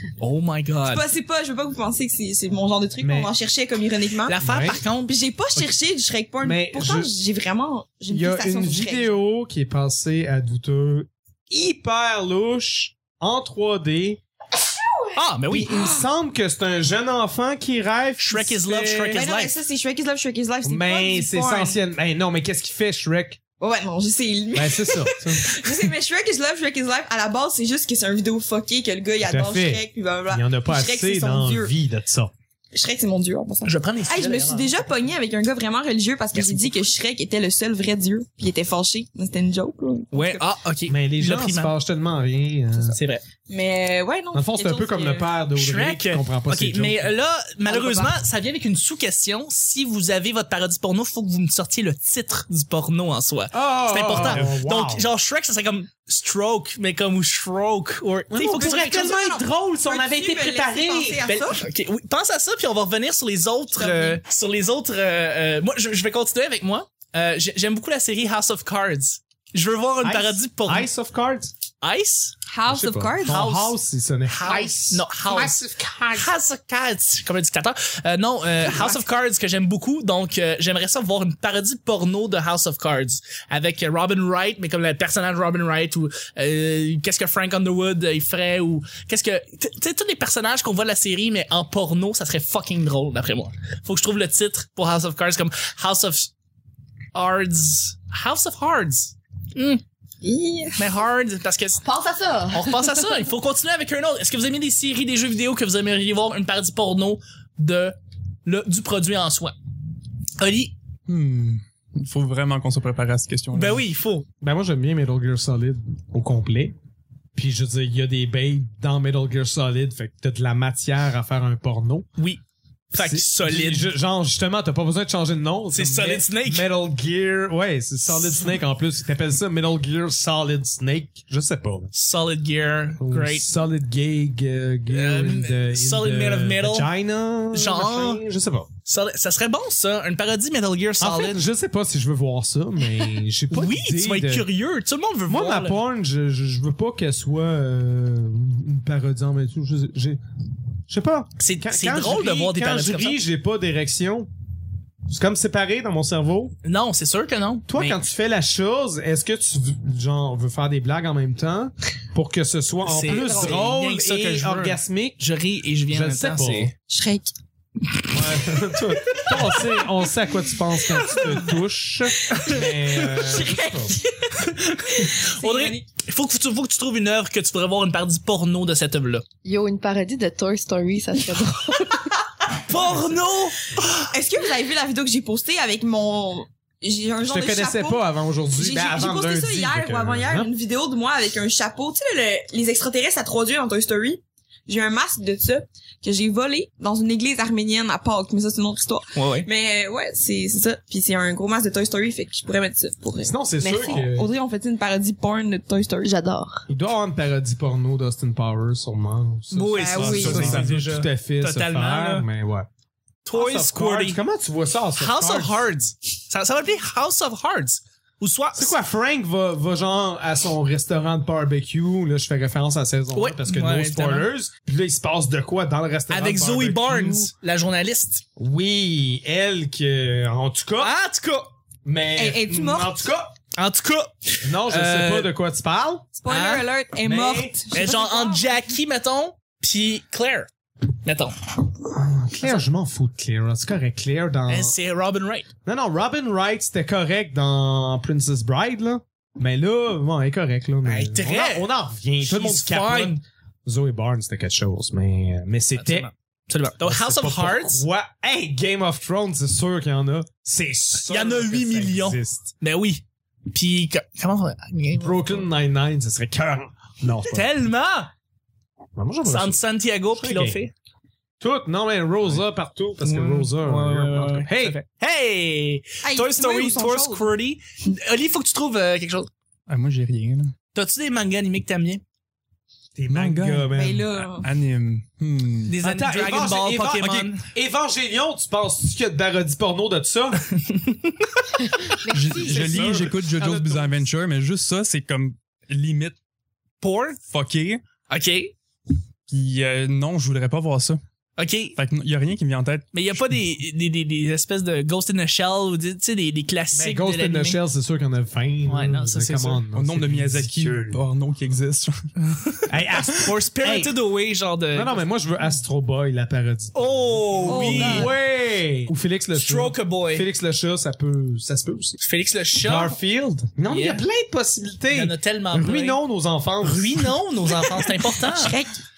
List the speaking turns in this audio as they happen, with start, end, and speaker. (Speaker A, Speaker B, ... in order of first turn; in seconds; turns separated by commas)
Speaker A: 0.2-1.1, Speaker B: 0.9-4.4, Speaker C: 3.0-3.3, Speaker A: 4.3-5.7, Speaker C: 4.4-4.8, Speaker B: 5.1-9.1, Speaker C: 6.4-7.1, Speaker C: 8.1-14.2, Speaker B: 15.1-16.1, Speaker A: 15.2-15.8, Speaker C: 15.5-19.2, Speaker A: 18.2-19.5, Speaker B: 19.1-21.8, Speaker C: 20.6-23.4, Speaker B: 23.6-31.7, Speaker C: 24.5-25.6, Speaker C: 29.2-32.3, Speaker B: 32.7-40.4, Speaker A: 33.6-34.7, Speaker A: 36.4-36.7, Speaker A: 40.1-41.7, Speaker C: 40.9-43.0, Speaker A: 42.9-43.2, Speaker B: 43.5-45.3, Speaker C: 44.3-47.1, Speaker A: 45.6-59.3, Speaker B: 47.7-48.1, Speaker C: 53.5-55.1, Speaker C: 58.3-61.3, Speaker B: 58.9-61.6, Speaker A: 61.3-70.9, Speaker B: 63.8-64.2, Speaker C: 70.0-71.5, Speaker A: 71.8-72.3, Speaker B: 72.5-73.6, Speaker C: 72.7-75.4, Speaker A: 73.3-73.7, Speaker A: 74.3-75.6, Speaker D: 74.5-76.3, Speaker A: 76.1-96.3, Speaker A: 97.1-99.8, Speaker B: 100.2-100.9, Speaker A: 100.8-101.8, Speaker D: 101.8-103.1, Speaker A: 102.5-109.6, Speaker A: 110.4-110.8, Speaker E: 111.1-113.9, Speaker A: 113.5-114.3, Speaker C: 114.4-116.8, Speaker C: 117.3-122.1, Speaker A: 122.2-123.9, Speaker C: 122.9-131.9, Speaker A: 125.7-126.7, Speaker A: 131.9-133.5, Speaker C: 133.0-138.7, Speaker A: 134.9-136.9, Speaker A: 137.5-138.2, Speaker A: 138.9-141.4, Speaker C: 141.0-144.5, Speaker A: 143.5-145.8, Speaker C: 145.3-150.2, Speaker C: 150.9-154.3, Speaker A: 151.4-153.2, Speaker C: 155.1-156.6, Speaker A: 156.6-158.0, Speaker C: 157.7-165.2, Speaker A: 162.8-166.7, Speaker C: 165.9-166.7, Speaker B: 166.9-167.3, Speaker C: 168.1-174.0, Speaker B: 172.3-175.9, Speaker A: 174.4-179.2, Speaker D: 179.4-182.1, Speaker A: 182.6-184.1, Speaker C: 182.8-183.2, Speaker B: 184.1-206.1, Speaker C: 187.2-190.5, Speaker A: 199.2-199.5, Speaker C: 203.2-204.3, Speaker D: 203.6-204.1, Speaker D: 206.0-206.7, Speaker C: 206.7-212.7, Speaker A: 209.5-212.3, Speaker B: 209.8-210.6, Speaker E: 210.0-210.9, Speaker A: 213.2-214.2, Speaker C: 213.3-215.6, Speaker A: 215.0-218.8, Speaker C: 218.6-227.3, Speaker A: 223.1-224.3, Speaker A: 226.1-228.2, Speaker C: 228.4-230.9, Speaker A: 230.8-231.5, Speaker C: 231.8-233.3, Speaker B: 232.2-233.1, Speaker A: 233.6-235.3, Speaker C: 234.4-236.1, Speaker B: 236.2-238.6, Speaker A: 236.3-236.7, Speaker C: 237.0-237.6, Speaker A: 237.7-240.5, Speaker A: 241.0-241.3, Speaker C: 241.8-244.8, Speaker A: 244.5-245.5, Speaker C: 245.7-256.1, Speaker A: 250.8-251.7, Speaker A: 252.2-253.2, Speaker A: 255.8-257.8, Speaker C: 256.8-262.5, Speaker A: 261.1-265.5, Speaker C: 265.0-267.5, Speaker A: 267.3-268.1, Speaker C: 268.9-269.6, Speaker A: 269.3-270.7, Speaker C: 270.1-270.6, Speaker C: 271.4-274.8, Speaker A: 273.0-279.3, Speaker B: 276.0-277.3, Speaker E: 279.7-280.5, Speaker A: 280.7-282.0, Speaker C: 282.9-284.1, Speaker E: 283.1-285.8, Speaker B: 283.7-284.5, Speaker A: 285.7-287.4, Speaker C: 285.8-290.5, Speaker A: 290.5-291.4, Speaker D: 291.8-293.0, Speaker E: 292.1-296.2, Speaker C: 292.3-294.1, Speaker A: 296.8-297.2, Speaker E: 297.2-297.8, Speaker A: 298.1-298.5, Speaker E: 299.3-301.0, Speaker A: 301.4-301.8, Speaker E: 301.8-303.4, Speaker A: 302.9-307.6, Speaker C: 306.7-311.0, Speaker A: 308.7-309.6, Speaker E: 309.7-311.9, Speaker A: 312.2-315.1, Speaker C: 312.7-314.0, Speaker C: 314.7-322.0, Speaker A: 316.8-318.1, Speaker B: 317.5-318.1, Speaker A: 319.4-320.3, Speaker A: 322.0-323.0, Speaker C: 322.6-327.2, Speaker A: 323.7-324.1, Speaker A: 324.9-326.0, Speaker A: 326.6-328.6, Speaker B: 328.1-328.8